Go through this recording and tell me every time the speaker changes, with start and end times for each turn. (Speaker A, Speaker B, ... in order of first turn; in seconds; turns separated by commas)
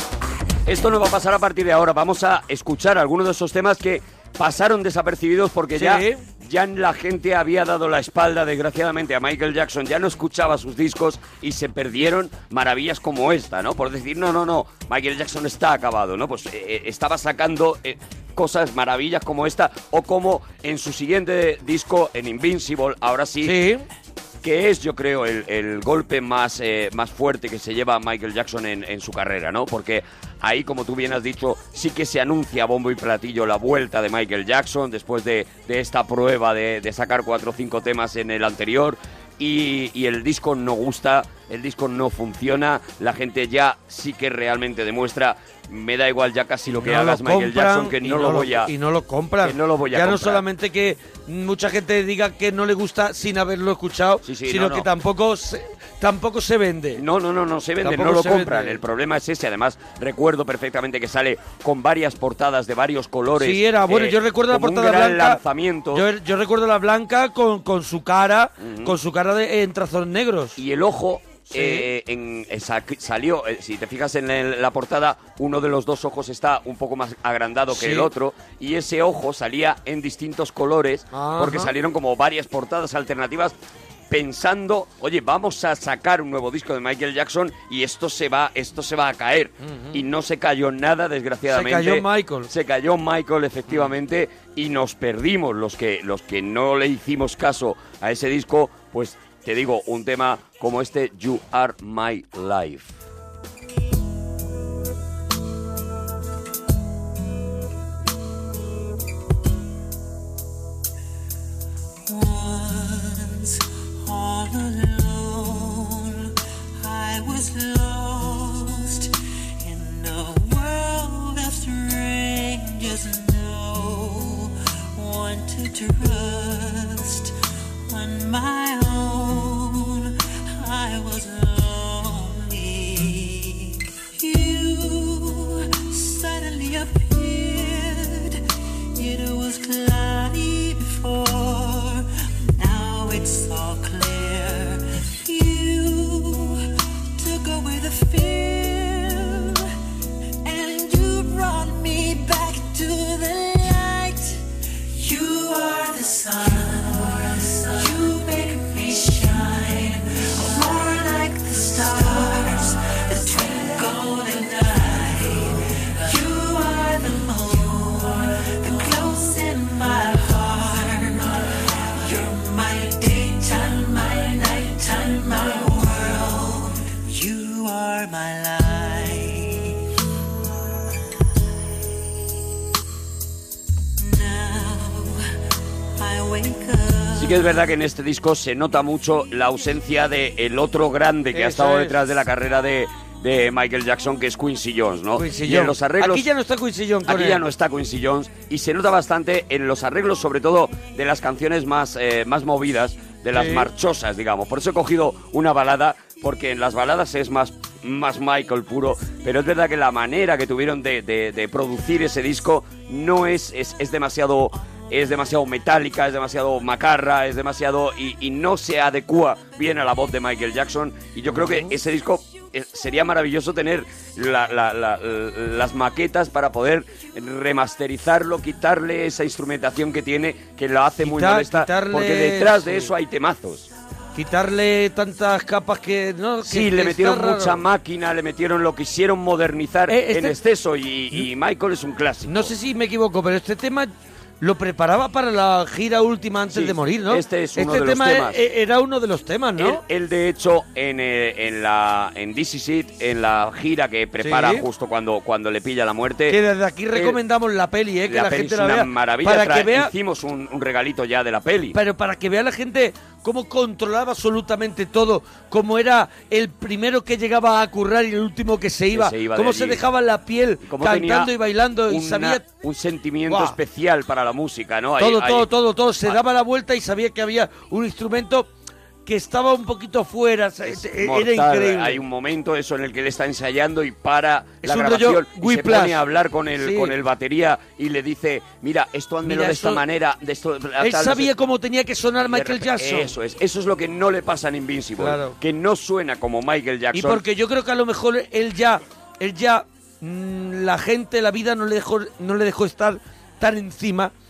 Speaker A: 0.7-23.5, Speaker B: 5.7-6.2, Speaker B: 23.4-23.8, Speaker A: 24.4-48.7, Speaker B: 46.7-57.0, Speaker A: 49.4-50.4, Speaker A: 54.2-54.9, Speaker A: 57.0-66.0, Speaker B: 57.8-58.8, Speaker B: 63.3-65.4, Speaker B: 65.9-70.6, Speaker A: 68.6-68.9, Speaker A: 70.6-83.5, Speaker B: 71.5-71.9, Speaker B: 77.7-78.1, Speaker B: 81.1-81.7, Speaker A: 84.1-102.9, Speaker B: 89.6-90.0, Speaker B: 91.5-92.5, Speaker C: 112.0-127.3, Speaker C: 127.8-149.7, Speaker C: 150.4-179.8, Speaker C: 184.0-185.2, Speaker C: 185.9-187.5, Speaker A: 187.1-196.2, Speaker B: 191.3-192.0, Speaker B: 195.2-197.4, Speaker A: 197.1-233.7, Speaker B: 203.3-203.7, Speaker B: 221.3-221.7, Speaker B: 231.0-232.9, Speaker B: 234.1-237.6, Speaker A: 236.4-242.5, Speaker B: 239.9-240.4, Speaker B: 242.2-249.8, Speaker A: 246.5-248.4, Speaker A: 249.6-256.4, Speaker B: 254.2-254.7, Speaker B: 256.3-259.9, Speaker A: 256.9-257.2, Speaker A: 258.1-261.8, Speaker B: 261.7-272.4, Speaker A: 268.9-269.8, Speaker A: 270.6-271.3, Speaker A: 271.9-275.5, Speaker B: 273.3-273.6, Speaker B: 275.0-278.5, Speaker B: 279.1-282.0, Speaker A: 280.6-291.3, Speaker B: 284.6-286.0, Speaker B: 286.6-286.9, Speaker B: 289.2-289.8, Speaker B: 290.8-293.1, Speaker A: 292.3-297.2, Speaker B: 295.0-295.4, Speaker B: 296.9-304.1